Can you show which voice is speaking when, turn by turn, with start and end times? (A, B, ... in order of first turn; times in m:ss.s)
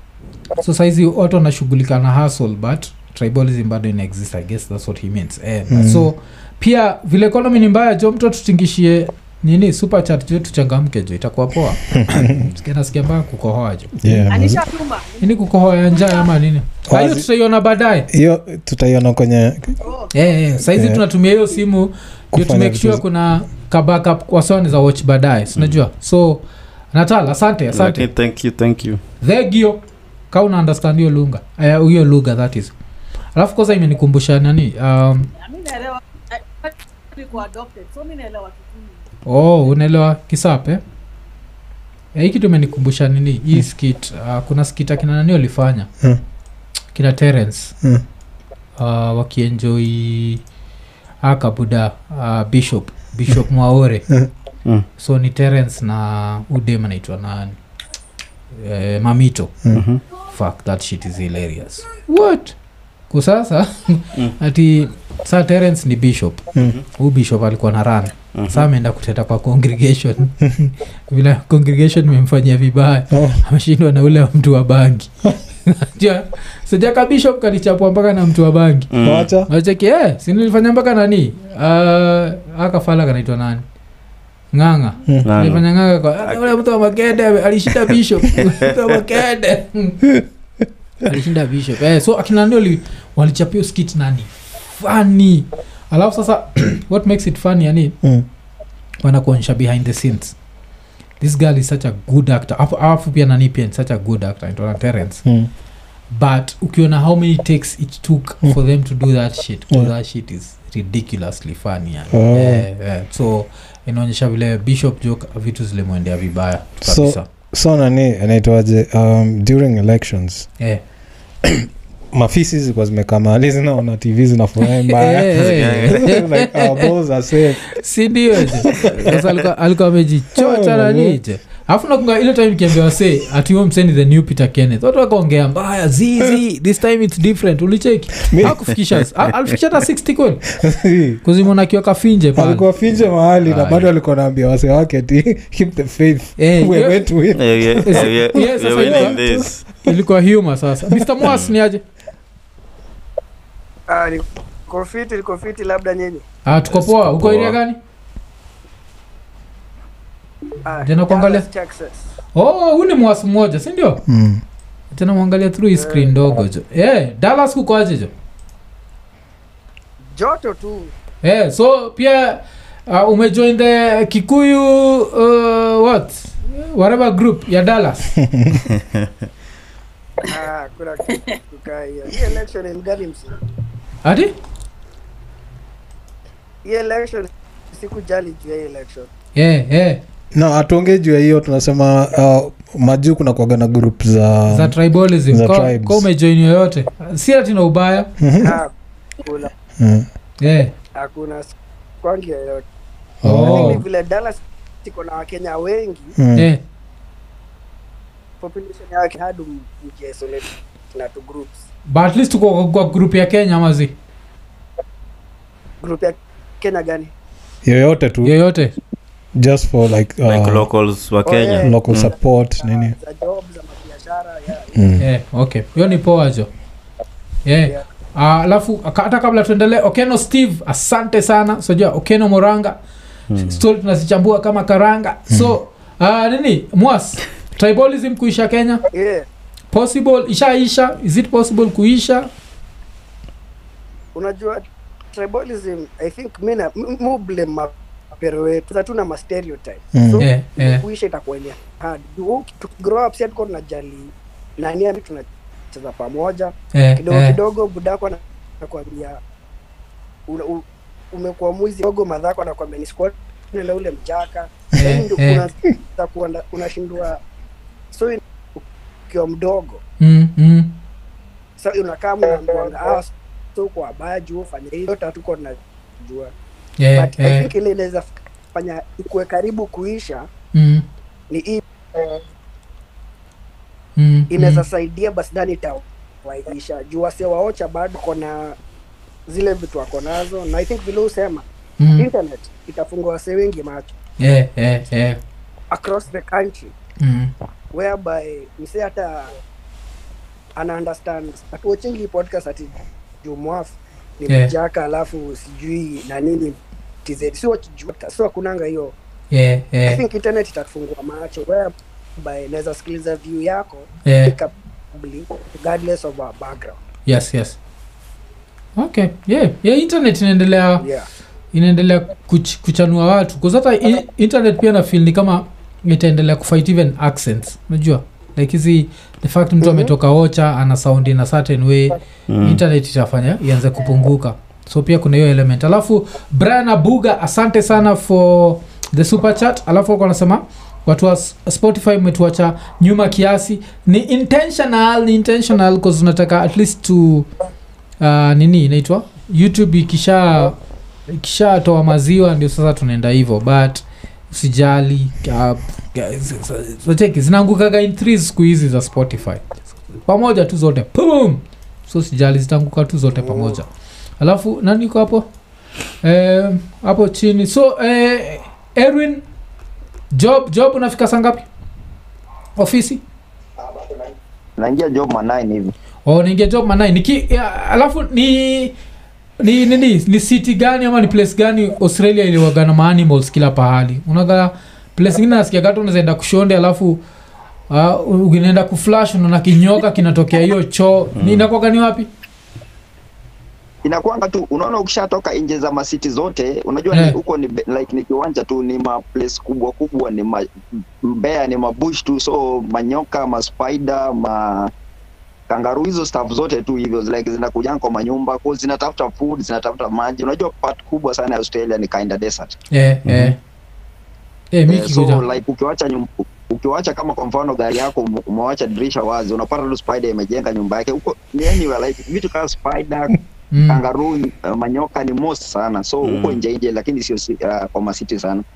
0:00.6-0:14.3 A
0:05.7-0:06.1 B
0:11.9-0:12.4 B
0:14.0-0:14.6 B
0:14.3-0:16.3 C
0:15.2-0:18.1 A
0:16.9-0:17.3 B
0:18.1-0:19.8 B
0:19.8-0:20.1 C
0:20.1-0:28.1 A
0:20.6-0:21.0 B
0:22.3-0:23.0 B
0:27.7-0:29.0 D
0:29.2-0:32.7 A
0:33.4-0:35.3 A
0:35.4-0:39.0 C
0:39.3-0:40.8 A
0:42.2-0:45.9 A
0:47.0-0:47.8 A
0:48.8-0:50.4 A
0:51.2-0:54.1 A
0:55.0-0:57.6 A
0:58.5-0:59.5 A
0:59.7-1:00.0 D
1:00.3-1:02.6 A
1:03.1-1:18.9 A
1:08.3-1:08.7 D
1:13.1-1:13.4 B
1:18.9-1:19.3 D
1:19.0-1:19.5 B
1:19.5-1:23.6 A
1:24.5-1:30.0 A
1:25.2-1:25.6 D
1:26.2-1:26.5 D
1:31.0-1:38.0 A
1:39.0-1:40.4 A
1:41.2-1:45.2 A
1:45.2-1:45.5 B
1:46.1-1:57.3 A
1:52.1-1:52.7 B
1:56.8-2:00.5 B
2:01.4-2:07.7 B
2:04.7-2:06.9 A
2:05.4-2:06.1 D
2:07.7-2:20.5 A
2:08.4-2:09.1 B
2:08.9-2:09.2 D
2:10.4-2:11.2 B
2:18.3-2:18.6 B
2:20.6-2:21.2 B
2:21.2-2:22.7 A
2:22.4-2:29.5 B
2:23.4-2:23.9 A
2:26.4-2:27.1 A
2:27.3-2:29.6 D
2:27.8-2:31.8 A
2:31.3-2:31.5 D
2:33.9-2:36.2 E
2:36.5-2:37.8 A
2:36.7-2:37.6 D
2:40.6-2:42.1 E
2:40.8-2:41.5 A
2:42.3-2:44.0 A
2:44.1-2:44.4 B
2:44.9-2:48.1 A
2:45.7-2:46.1 E
2:50.1-2:50.9 E
2:51.2-2:58.1 A
2:58.2-2:58.6 B
2:58.7-2:59.1 D
3:00.2-3:03.3 E
3:01.1-3:01.4 C
3:04.0-3:04.3 A
3:06.6-3:09.1 E
3:09.4-3:10.0 A
3:10.3-3:14.8 B
3:14.5-3:18.1 A
3:15.3-3:16.1 B
3:18.2-3:18.6 B
3:18.4-3:19.5 E
3:19.8-3:20.1 B
3:20.4-3:20.7 A
3:21.0-3:22.6 E
3:23.2-3:23.8 B
3:23.3-3:23.8 A
3:23.3-3:26.2 E
3:26.2-3:26.5 B
3:28.4-3:31.7 E
3:31.9-3:33.9 A
3:35.8-3:37.1 E
3:37.6-3:38.4 B
3:38.2-3:38.8 A
3:39.4-3:40.7 B
3:40.3-3:42.1 D
3:41.2-3:44.9 E
3:41.5-3:43.0 B
3:44.7-3:45.0 B
3:45.0-3:46.5 A
3:47.5-3:52.8 A
3:53.3-3:53.6 D
3:53.4-3:58.8 A
3:58.9-3:59.3 E
3:59.7-4:02.3 A
4:04.2-4:19.2 E
4:09.9-4:10.2 B
4:10.2-4:10.8 A
4:16.7-4:17.4 A
4:20.3-4:27.2 E
4:24.8-4:25.5 A
4:27.9-4:29.8 E
4:30.0-4:30.7 A
4:31.6-4:36.3 E
4:36.8-4:37.5 A
4:37.0-4:40.3 E
4:40.5-4:40.8 A
4:41.3-4:41.6 E
4:44.0-4:44.7 A
4:44.3-4:48.6 E
4:49.3-4:51.4 E
4:51.8-4:52.1 A
4:52.0-4:53.9 E
4:54.2-4:55.2 A
4:55.7-4:56.7 E
4:57.0-4:57.3 A
4:57.7-4:59.3 E
5:00.6-5:09.0 E
5:09.3-5:10.0 A
5:09.8-5:16.8 E
5:14.0-5:14.4 A
5:17.1-5:17.6 A
5:18.8-5:20.9 A
5:20.8-5:21.1 E
5:21.5-5:47.3 A
5:29.6-5:29.9 E
5:32.3-5:32.6 D
5:48.0-5:50.6 A
5:51.1-6:03.7 A
6:03.1-6:03.6 E
6:04.2-6:05.3 A
6:06.0-6:09.2 A
6:10.1-6:11.5 A
6:12.6-6:13.0 A
6:14.6-6:15.7 F
6:16.1-6:18.7 A
6:19.4-6:27.0 A
6:27.7-6:32.1 A
6:31.2-6:31.5 D
6:33.8-6:40.5 F
6:41.0-6:44.7 F
6:45.5-6:52.5 F
6:52.7-6:53.4 A
6:53.1-6:53.4 D
6:54.5-6:55.2 A
6:54.7-7:03.2 F
7:03.5-7:03.8 A
7:03.7-7:08.4 F
7:06.0-7:06.4 D